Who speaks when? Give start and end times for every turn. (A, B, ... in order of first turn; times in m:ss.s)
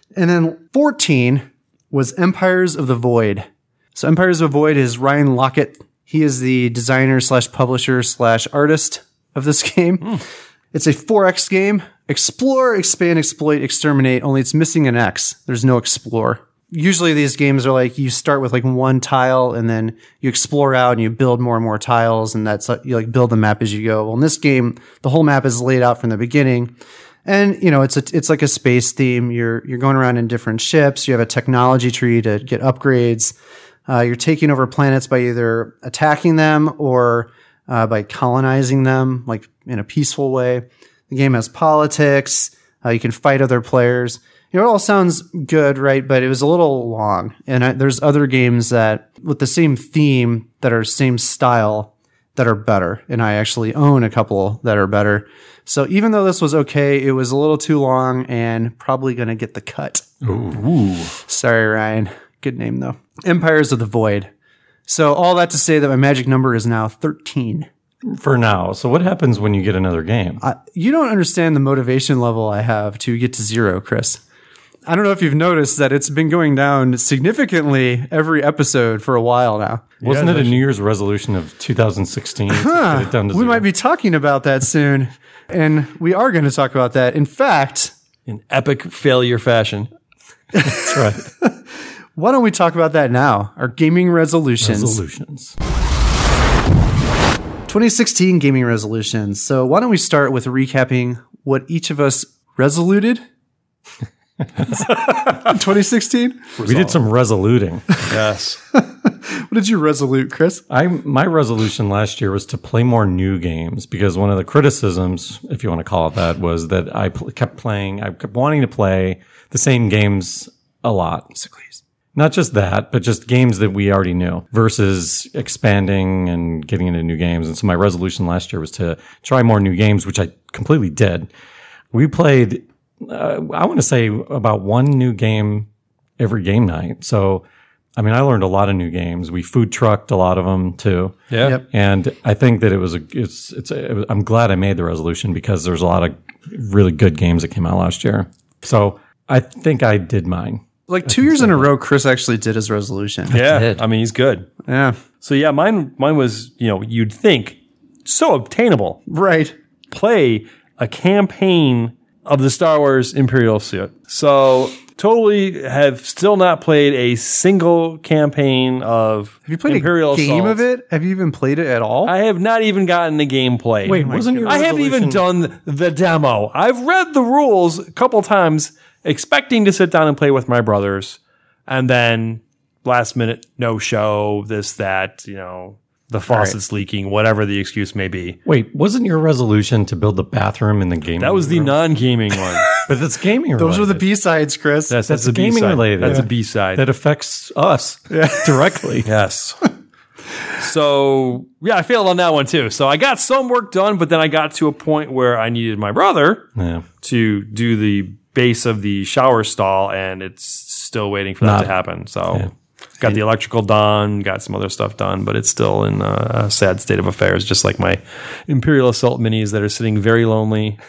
0:00.2-0:10.2 A
0:10.7-0:26.7 A
0:27.2-0:33.3 A
0:33.9-1:00.0 A
1:00.2-1:00.6 B
1:00.6-1:01.1 C
1:01.2-1:04.3 A
1:04.9-1:07.7 A
1:08.0-1:10.4 B
1:10.4-1:14.2 A
1:14.9-1:19.9 A
1:20.0-1:20.6 C
1:20.0-1:23.6 B
1:22.5-1:27.9 A
1:28.3-1:29.9 C
1:30.5-1:31.6 A
1:30.6-1:31.3 B
1:32.2-1:35.0 A
1:34.6-1:35.6 B
1:37.7-1:43.2 A
1:44.6-1:44.9 B
1:44.8-1:46.5 A
1:46.6-1:47.0 C
1:46.6-1:47.9 B
1:48.1-1:48.6 C
1:48.7-1:50.6 A
1:50.7-2:01.3 B
2:01.4-2:01.8 A
2:02.2-2:11.3 B
2:11.9-2:17.4 B
2:18.0-2:31.7 B
2:21.3-2:21.6 C
2:30.9-2:33.4 A
2:33.3-2:34.5 C
2:33.4-2:33.8 B
2:34.7-2:35.0 A
2:35.2-2:39.0 C
2:39.1-2:39.6 A
2:39.9-2:50.6 C
2:49.5-2:52.1 A
2:52.0-3:08.4 C
2:53.8-2:55.2 B
2:53.9-2:54.6 A
3:06.3-3:06.6 A
3:08.5-3:11.8 B
3:11.2-3:12.7 C
3:12.8-3:14.0 B
3:13.6-3:15.0 A
3:14.9-3:16.8 C
3:14.9-3:19.1 B
3:18.1-3:18.6 A
3:19.1-3:19.6 C
3:20.6-3:26.5 C
3:26.6-3:26.9 B
3:27.0-3:32.5 C
3:31.4-3:31.7 B
3:33.0-3:40.8 C